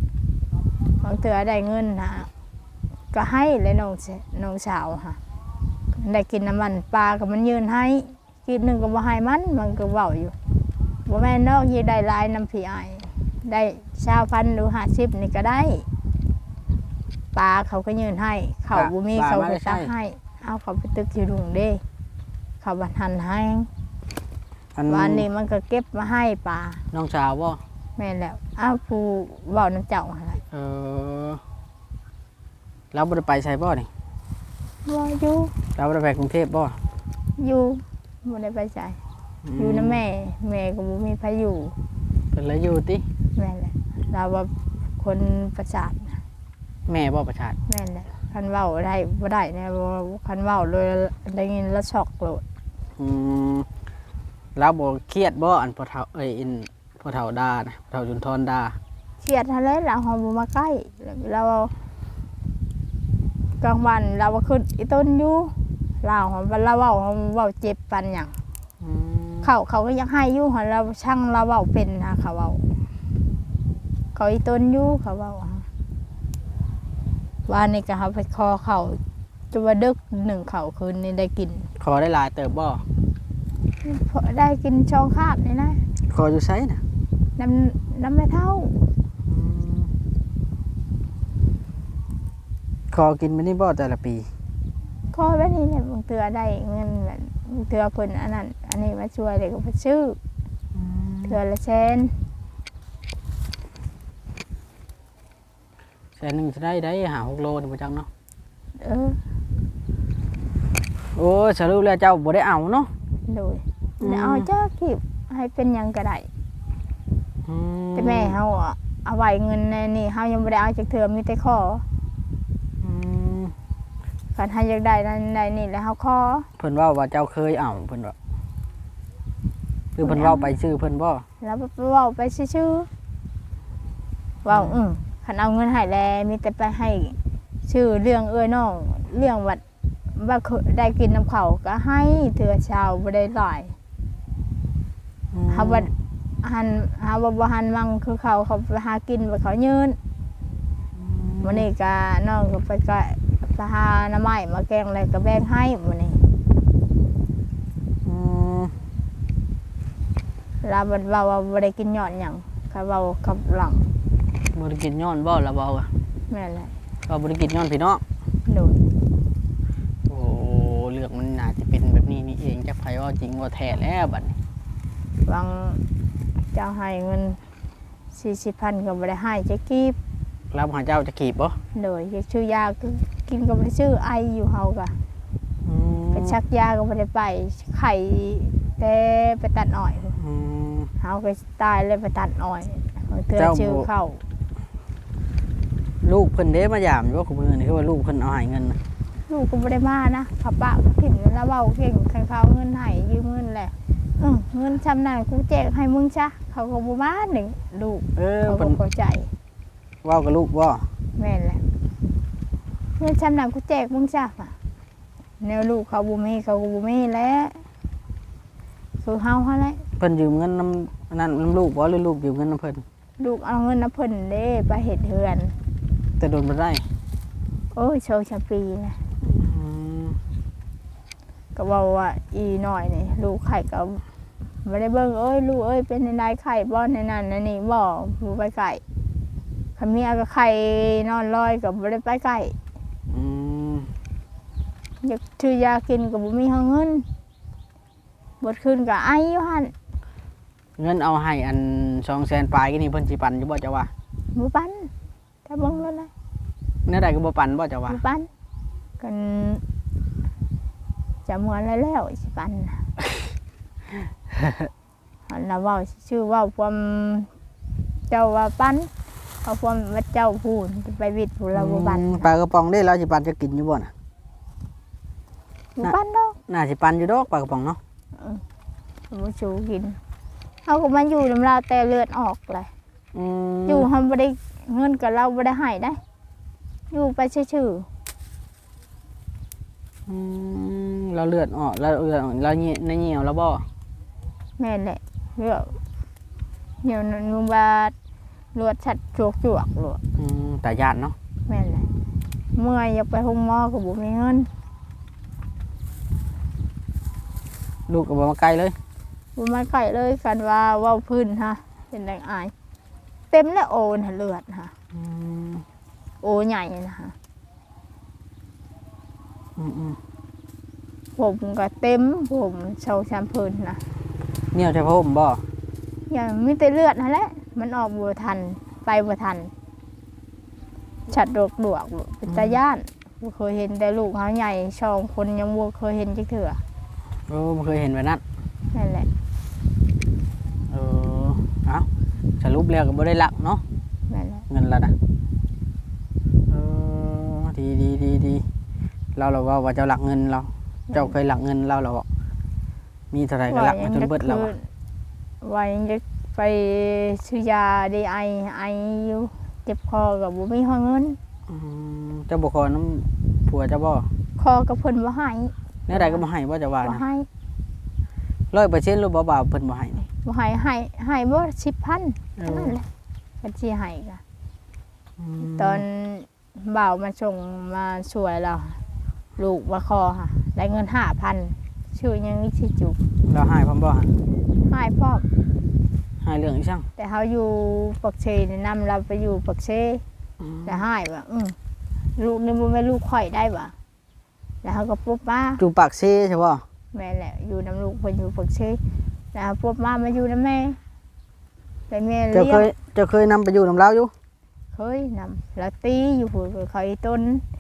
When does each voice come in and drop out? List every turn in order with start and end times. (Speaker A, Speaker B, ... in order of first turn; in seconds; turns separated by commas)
Speaker A: 1.0-2.3, Speaker A: 3.1-5.2, Speaker A: 6.0-10.3, Speaker A: 11.1-15.9, Speaker A: 17.3-21.8, Speaker B: 18.7-19.9, Speaker A: 22.6-23.7, Speaker B: 24.8-25.3, Speaker A: 24.9-26.8, Speaker B: 26.9-27.6, Speaker A: 28.0-30.4, Speaker B: 30.5-31.4, Speaker B: 32.9-33.9, Speaker A: 34.9-35.5, Speaker B: 35.8-36.8, Speaker A: 37.4-39.0, Speaker B: 39.4-40.0, Speaker A: 39.6-41.8, Speaker B: 42.3-43.0, Speaker A: 43.3-46.2, Speaker B: 46.9-47.6, Speaker A: 47.7-52.4, Speaker B: 53.0-53.7, Speaker B: 54.5-58.8, Speaker A: 59.2-61.7, Speaker A: 63.6-68.4, Speaker B: 68.8-69.5, Speaker A: 69.4-72.7, Speaker A: 74.1-75.7, Speaker A: 77.5-79.0, Speaker A: 79.5-81.7, Speaker B: 81.8-82.8, Speaker A: 83.8-85.8, Speaker B: 86.1-86.8, Speaker A: 87.4-88.8, Speaker B: 89.3-89.9, Speaker B: 92.9-94.3, Speaker A: 95.1-100.2, Speaker B: 100.8-101.4, Speaker A: 101.3-102.2, Speaker B: 106.2-108.1, Speaker A: 108.8-109.2, Speaker B: 111.1-112.9, Speaker A: 113.3-116.3, Speaker B: 114.0-114.5, Speaker B: 117.5-118.4, Speaker A: 118.0-121.8, Speaker B: 122.8-123.5, Speaker A: 124.3-126.5, Speaker B: 126.6-128.2, Speaker B: 129.9-131.2, Speaker A: 130.0-130.5, Speaker A: 131.4-132.9, Speaker A: 134.4-139.6, Speaker B: 134.5-134.8, Speaker A: 140.2-143.8, Speaker B: 145.3-145.9, Speaker A: 145.5-150.0, Speaker B: 151.0-151.7, Speaker A: 151.4-156.2, Speaker B: 158.0-158.8, Speaker A: 160.6-163.9, Speaker B: 164.5-165.9, Speaker A: 166.3-166.7, Speaker B: 167.1-168.0, Speaker A: 168.5-168.8, Speaker B: 170.1-174.3, Speaker A: 175.2-175.9, Speaker A: 176.5-177.4, Speaker A: 178.1-180.0, Speaker B: 180.5-181.6, Speaker A: 181.7-185.0, Speaker B: 185.6-186.3, Speaker A: 186.1-190.2, Speaker B: 190.2-190.9, Speaker A: 191.0-194.2, Speaker B: 193.4-193.9, Speaker B: 196.0-198.8, Speaker A: 199.3-209.3, Speaker B: 208.2-208.8, Speaker B: 210.0-210.9, Speaker A: 211.2-211.6, Speaker A: 213.0-214.6, Speaker A: 215.4-217.7, Speaker A: 219.0-219.8, Speaker B: 220.0-222.8, Speaker A: 223.2-225.6, Speaker B: 226.2-226.9, Speaker A: 227.7-229.0, Speaker B: 229.2-230.2, Speaker A: 231.6-234.0, Speaker A: 234.6-238.8, Speaker A: 239.8-242.6, Speaker B: 243.1-243.9, Speaker A: 245.0-247.1, Speaker A: 248.4-249.7, Speaker B: 250.8-253.9, Speaker A: 254.3-254.9, Speaker A: 255.5-256.1, Speaker B: 256.9-258.0, Speaker A: 257.9-258.3, Speaker A: 259.0-259.6, Speaker A: 261.3-262.9, Speaker B: 264.3-264.7, Speaker A: 265.3-267.3, Speaker A: 268.1-268.9, Speaker A: 269.4-272.3, Speaker B: 271.6-273.9, Speaker A: 275.8-276.4, Speaker B: 276.5-277.8, Speaker A: 278.1-278.4, Speaker A: 279.1-280.0, Speaker A: 280.6-282.7, Speaker B: 283.1-283.9, Speaker A: 283.7-286.0, Speaker A: 286.9-287.9, Speaker B: 290.1-293.7, Speaker A: 294.6-295.8, Speaker A: 296.8-297.9, Speaker A: 298.5-300.0, Speaker B: 300.2-301.2, Speaker A: 301.5-301.9, Speaker A: 302.5-304.5, Speaker B: 307.9-308.8, Speaker A: 309.4-312.5, Speaker A: 313.3-314.7, Speaker B: 314.9-315.6, Speaker A: 316.2-317.1, Speaker B: 319.6-320.0, Speaker A: 321.2-323.8, Speaker B: 324.5-325.4, Speaker A: 326.1-329.5, Speaker A: 331.1-336.6, Speaker B: 332.3-332.6, Speaker B: 337.3-338.2, Speaker A: 338.7-339.1, Speaker B: 340.7-341.9, Speaker B: 342.4-343.6, Speaker A: 344.1-344.5, Speaker B: 344.5-344.9, Speaker B: 346.5-348.5, Speaker B: 349.1-352.1, Speaker A: 350.9-351.1, Speaker B: 353.1-354.5, Speaker A: 353.5-354.7, Speaker A: 355.4-361.2, Speaker B: 361.5-364.1, Speaker A: 364.4-366.2, Speaker B: 365.9-367.1, Speaker A: 366.8-367.3, Speaker B: 368.5-370.1, Speaker A: 370.1-372.9, Speaker B: 372.4-372.8, Speaker A: 373.4-374.2, Speaker B: 375.2-375.8, Speaker A: 375.4-378.8, Speaker A: 379.4-383.0, Speaker B: 383.3-384.1, Speaker A: 384.6-385.3, Speaker B: 386.2-386.9, Speaker A: 387.0-390.0, Speaker A: 390.6-391.6, Speaker A: 392.2-393.7, Speaker A: 394.6-395.6, Speaker B: 395.6-396.6, Speaker A: 396.9-398.8, Speaker A: 399.3-400.8, Speaker A: 401.9-402.7, Speaker B: 402.3-404.1, Speaker A: 404.7-407.4